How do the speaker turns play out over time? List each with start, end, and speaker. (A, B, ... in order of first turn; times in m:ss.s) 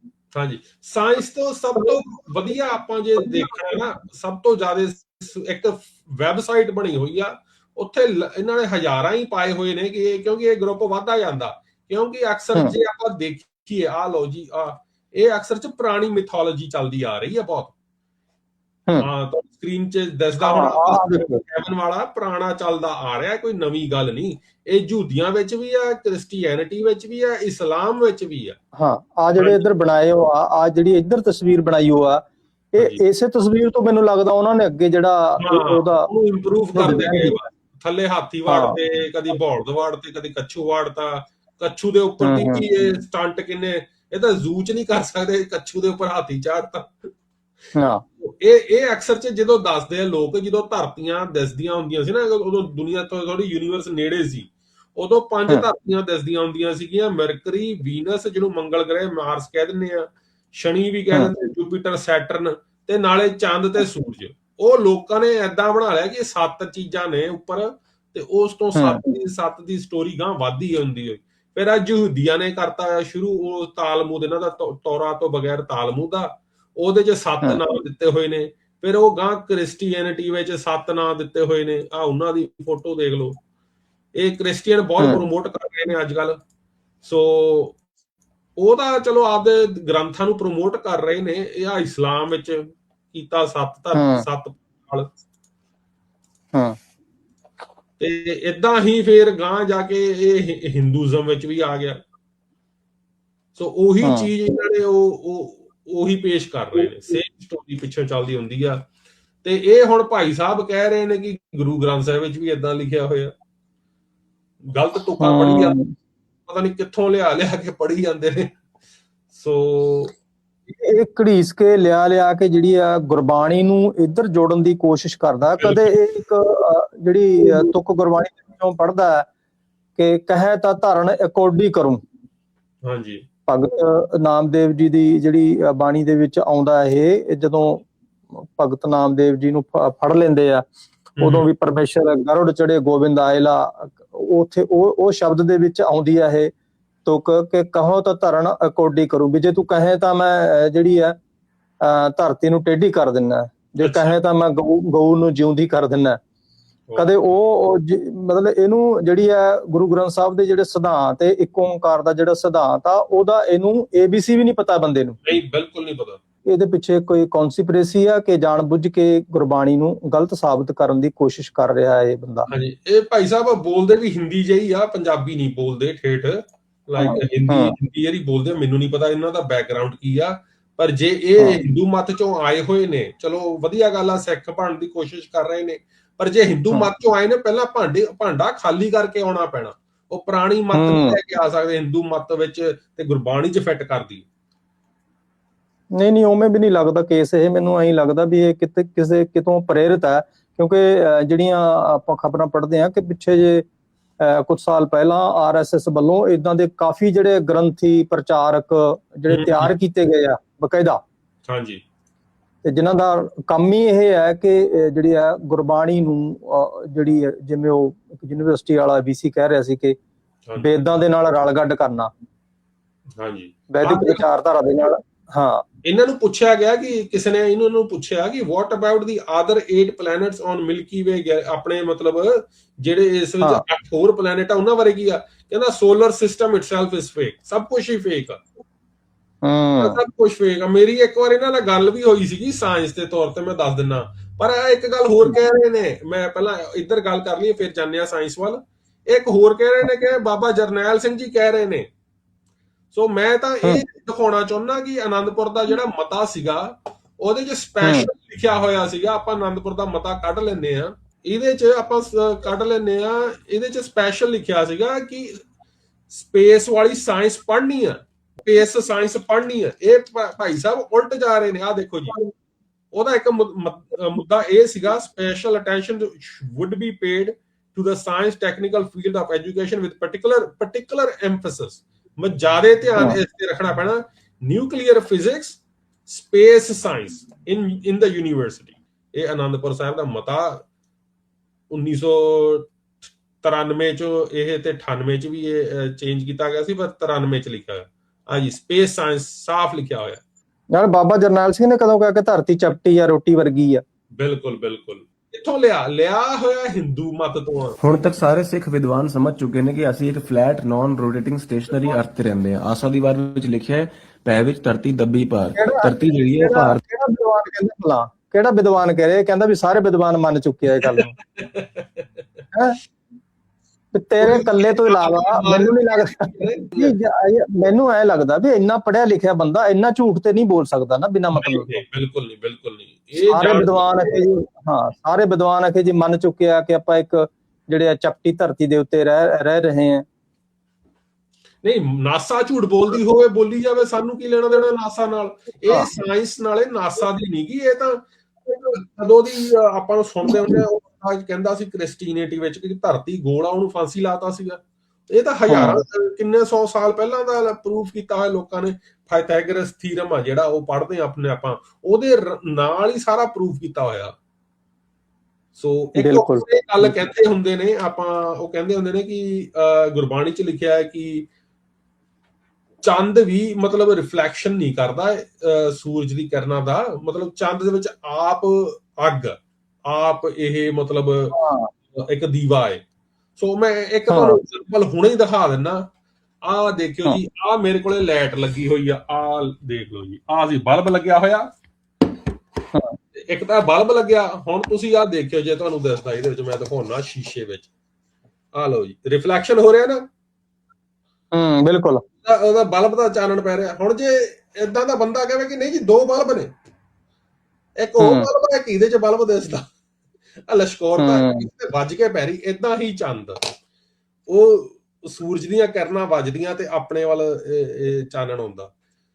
0:00.3-0:17.7 A
0:19.0-0:28.6 A
0:20.4-0:21.4 B
0:28.7-0:36.1 B
0:29.4-0:29.6 A
0:32.8-0:33.0 A
0:35.4-0:47.1 A
0:36.7-0:37.4 B
0:38.5-0:38.8 B
0:42.2-0:42.6 B
0:47.8-0:48.0 B
0:48.2-1:23.4 A
1:08.8-1:09.0 B
1:24.2-1:26.4 A
1:27.0-1:27.8 A
1:28.6-1:35.1 A
1:33.9-1:34.2 B
1:38.0-1:42.0 A
1:43.5-1:48.8 A
1:44.0-1:44.3 B
1:49.4-1:53.3 A
1:54.7-1:55.8 A
1:55.2-1:55.9 B
1:56.5-1:58.6 A
1:59.3-2:00.1 A
2:00.8-2:09.3 B
2:05.6-2:05.9 A
2:10.0-2:12.0 B
2:12.8-2:13.2 A
2:13.5-2:20.6 B
2:21.2-2:21.5 A
2:21.2-2:26.5 B
2:27.0-2:31.2 B
2:31.8-2:36.2 B
2:33.8-2:34.2 A
2:37.0-2:45.2 B
2:45.2-2:46.2 A
2:46.4-2:52.5 B
2:52.5-3:14.2 A
2:57.0-2:57.7 B
3:10.7-3:11.2 B
3:15.9-3:23.6 B
3:24.2-3:31.0 B
3:29.3-3:29.7 A
3:31.5-3:31.8 A
3:32.6-3:40.0 B
3:40.6-3:42.1 B
3:43.2-3:44.2 A
3:43.7-3:45.6 B
3:45.8-3:58.4 A
3:59.4-4:00.0 B
3:59.8-4:11.8 A
4:12.9-4:25.4 A
4:17.8-4:18.1 B
4:26.1-4:32.2 A
4:32.9-4:50.6 A
4:51.7-4:52.7 A
4:53.4-5:00.2 A
5:00.7-5:03.8 B
5:04.2-5:07.8 A
5:07.8-5:16.8 C
5:15.6-5:21.1 B
5:20.9-5:22.2 A
5:22.5-5:22.8 B
5:23.9-5:31.8 B
5:24.2-5:26.9 A
5:31.3-5:34.2 A
5:33.3-5:40.0 B
5:41.6-6:04.1 A
5:55.5-5:55.8 B
6:05.6-6:11.3 A
6:06.0-6:07.0 B
6:12.8-6:21.4 A
6:21.3-6:21.7 B
6:21.9-6:22.8 A
6:23.4-6:25.9 A
6:24.1-6:24.4 B
6:26.4-6:31.5 A
6:33.2-6:37.7 A
6:38.5-6:40.0 A
6:41.3-6:42.0 B
6:42.2-6:46.5 A
6:47.8-6:49.7 A
6:48.0-6:48.3 B
6:50.5-6:53.5 A
6:51.0-6:51.4 B
6:54.3-6:58.7 A